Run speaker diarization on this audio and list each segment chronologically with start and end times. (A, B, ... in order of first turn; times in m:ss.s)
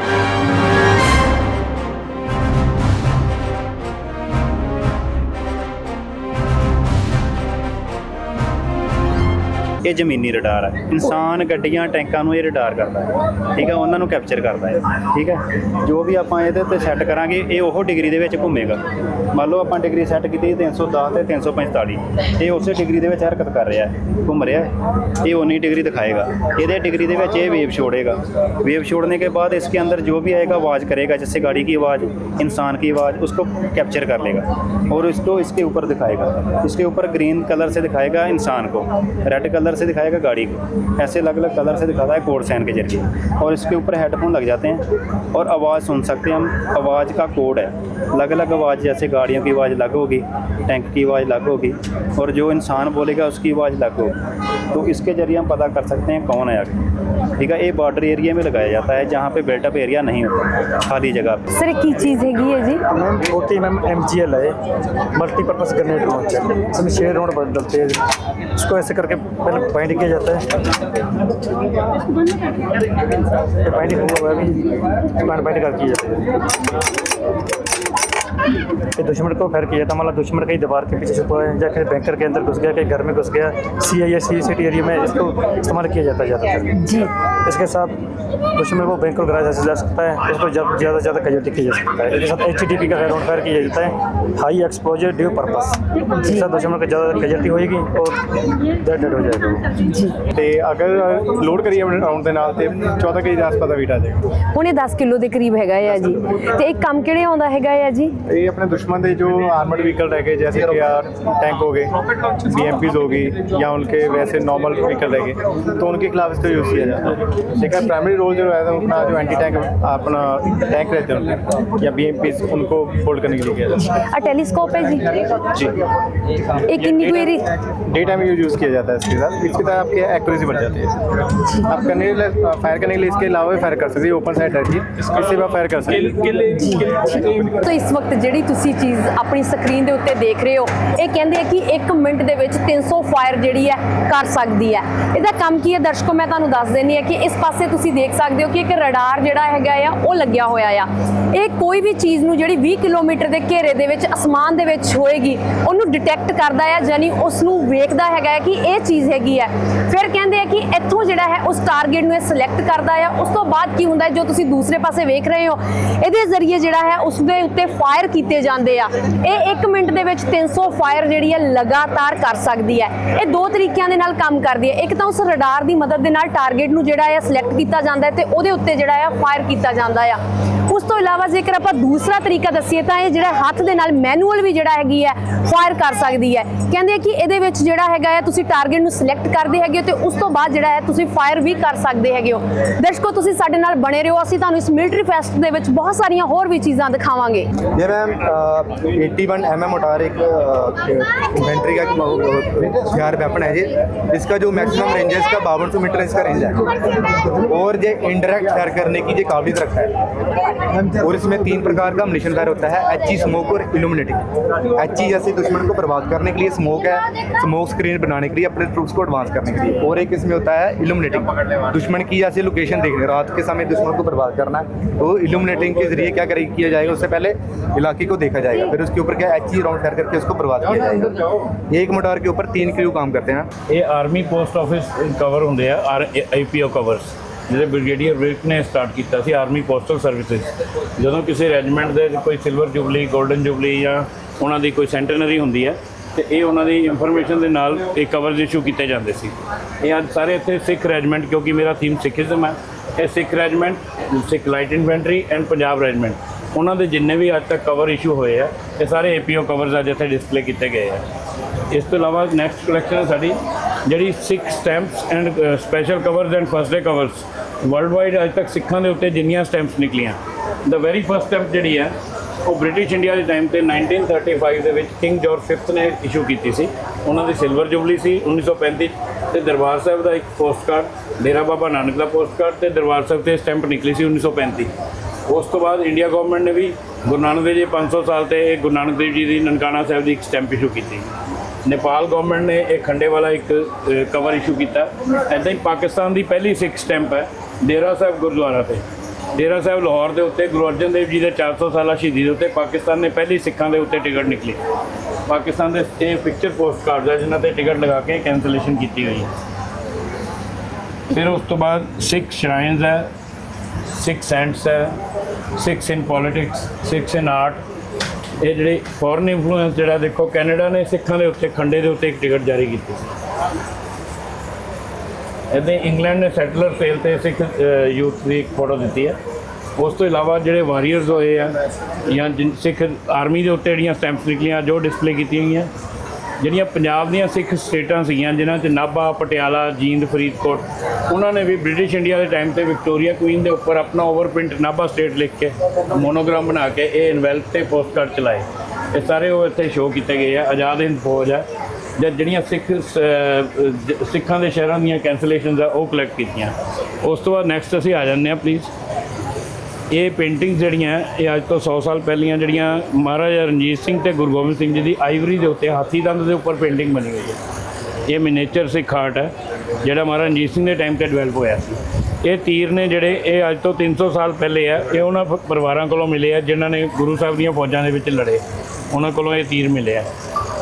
0:09.8-0:18.8 A
0:19.3-0:54.1 A
0:54.7-0:56.8 A
0:57.4-1:01.5 A
1:01.5-1:02.8 B
1:02.9-1:04.5 C
1:05.1-1:08.0 C
1:08.6-1:10.4 C
1:13.6-1:16.3 C
1:19.0-1:26.9 C
1:26.8-1:27.1 B
1:27.4-1:28.0 C
1:28.6-1:39.7 C
1:39.8-1:40.2 B
1:40.4-1:44.1 D
1:44.5-1:48.1 B
1:48.3-1:51.9 D
1:52.5-1:57.0 D
1:57.6-2:01.2 D
2:01.8-2:03.7 D
2:03.9-2:05.6 B
2:06.7-2:07.5 B
2:06.8-2:07.2 D
2:07.9-2:11.0 D
2:11.6-2:17.4 D
2:17.6-3:17.5 B
3:17.7-3:26.7 E
3:27.4-3:30.0 E
3:30.8-3:34.2 E
3:34.7-3:53.5 E
3:53.7-4:21.0 F
4:21.7-4:44.7 F
4:45.3-4:51.1 F
4:51.6-4:58.8 F
4:59.4-5:04.6 F
5:05.3-5:09.3 F
5:11.1-5:13.1 F
5:13.9-5:14.9 F
5:15.6-5:17.6 F
5:18.4-5:23.1 F
5:25.5-5:29.2 F
5:29.8-5:31.5 F
5:32.1-5:35.7 F
5:36.4-5:51.4 F
5:52.0-5:58.7 F
5:59.9-6:07.4 F
6:08.1-6:09.3 F
6:09.8-6:20.1 F